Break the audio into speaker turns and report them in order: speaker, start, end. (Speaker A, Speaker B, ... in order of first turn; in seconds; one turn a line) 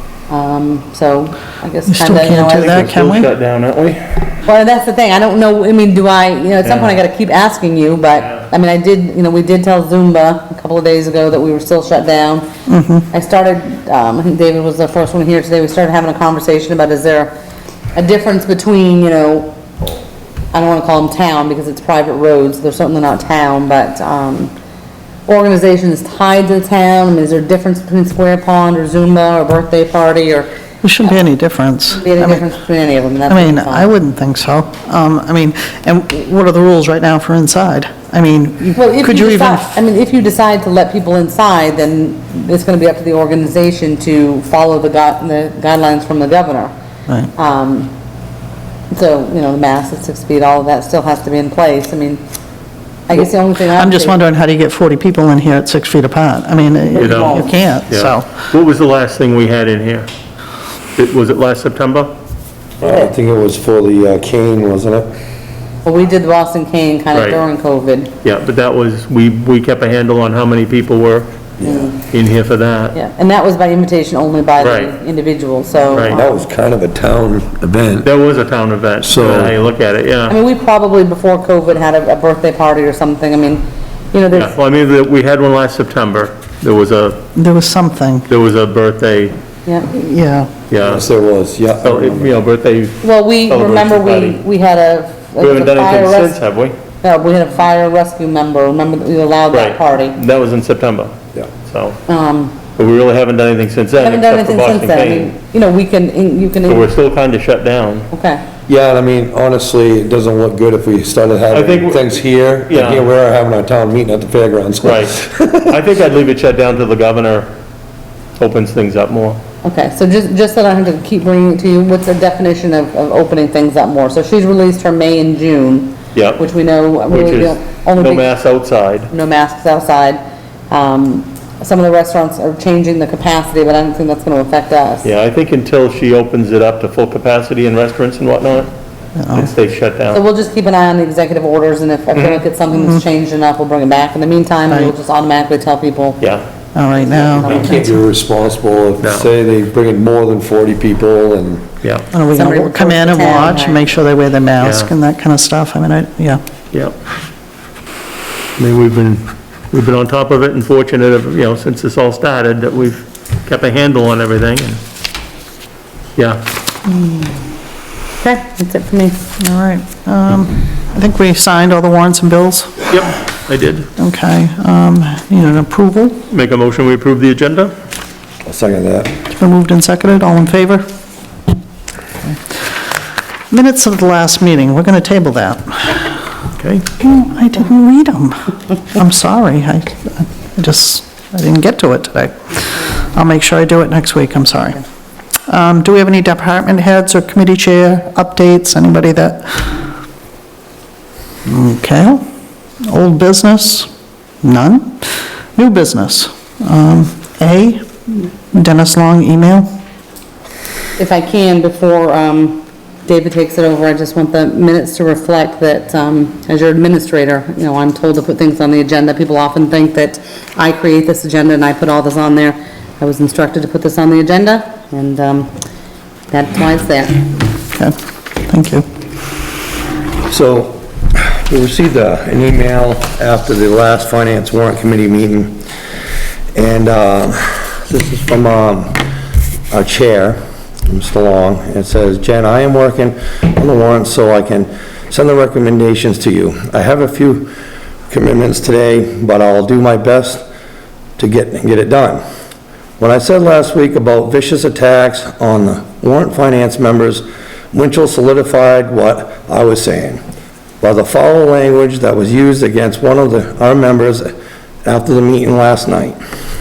Speaker A: 0.3-2.9
Speaker B: 1.9-3.3
Speaker C: 2.4-4.2
Speaker A: 4.4-12.5
Speaker C: 6.6-6.9
Speaker B: 12.7-13.1
Speaker A: 13.1-17.3
Speaker A: 17.9-19.6
Speaker A: 20.5-24.5
Speaker A: 25.3-30.5
Speaker B: 30.8-32.5
Speaker A: 31.9-33.9
Speaker B: 33.3-39.8
Speaker A: 38.8-46.7
Speaker A: 47.4-47.9
Speaker A: 48.9-52.2
Speaker A: 53.1-54.2
Speaker B: 53.8-58.3
Speaker A: 56.9-57.6
Speaker C: 57.0-60.1
Speaker C: 61.0-62.1
Speaker D: 62.8-65.1
Speaker A: 62.8-63.1
Speaker A: 65.8-68.1
Speaker C: 67.1-67.4
Speaker C: 68.2-71.3
Speaker D: 71.6-71.9
Speaker A: 71.6-72.0
Speaker C: 72.0-73.0
Speaker A: 72.9-76.4
Speaker C: 74.6-74.9
Speaker C: 75.9-76.2
Speaker D: 76.1-78.1
Speaker C: 78.0-80.4
Speaker D: 79.0-79.6
Speaker A: 80.3-84.5
Speaker C: 84.3-87.2
Speaker B: 87.4-88.3
Speaker C: 88.3-89.4
Speaker A: 89.7-89.9
Speaker B: 89.9-90.5
Speaker C: 90.7-91.1
Speaker D: 90.8-92.3
Speaker C: 91.8-94.4
Speaker A: 93.0-96.4
Speaker C: 95.4-96.8
Speaker A: 97.0-100.2
Speaker C: 99.5-102.0
Speaker A: 102.1-102.6
Speaker C: 102.8-105.3
Speaker A: 104.0-106.9
Speaker C: 106.7-108.1
Speaker A: 108.1-108.4
Speaker D: 108.7-115.7
Speaker C: 111.5-113.1
Speaker C: 114.8-117.5
Speaker C: 118.4-119.4
Speaker A: 119.6-128.3
Speaker C: 126.1-126.4
Speaker C: 127.1-129.1
Speaker A: 129.1-135.1
Speaker C: 135.0-138.7
Speaker B: 139.2-139.5
Speaker C: 139.3-140.2
Speaker A: 140.1-146.2
Speaker C: 142.1-142.4
Speaker B: 142.7-143.0
Speaker B: 146.8-148.0
Speaker A: 147.0-147.9
Speaker D: 147.4-151.7
Speaker C: 149.0-149.3
Speaker C: 151.8-152.1
Speaker B: 152.1-156.4
Speaker A: 152.3-154.0
Speaker C: 154.6-154.9
Speaker C: 158.6-164.8
Speaker C: 166.2-166.4
Speaker A: 166.9-167.3
Speaker A: 168.2-169.3
Speaker B: 169.4-172.8
Speaker C: 172.9-173.9
Speaker B: 174.0-176.2
Speaker C: 176.3-177.7
Speaker D: 178.4-179.1
Speaker B: 179.2-180.8
Speaker B: 183.5-186.2
Speaker C: 186.6-186.9
Speaker B: 187.0-194.8
Speaker B: 195.5-199.8
Speaker B: 201.5-202.2
Speaker B: 202.9-203.9
Speaker B: 204.4-209.7
Speaker A: 211.0-225.5
Speaker A: 226.3-227.2
Speaker B: 228.5-228.9
Speaker D: 230.3-235.6
Speaker D: 236.6-239.0
Speaker D: 239.7-247.5
Speaker D: 248.1-250.4
Speaker D: 251.2-252.2
Speaker D: 253.0-260.2
Speaker D: 260.8-264.3
Speaker D: 264.9-266.2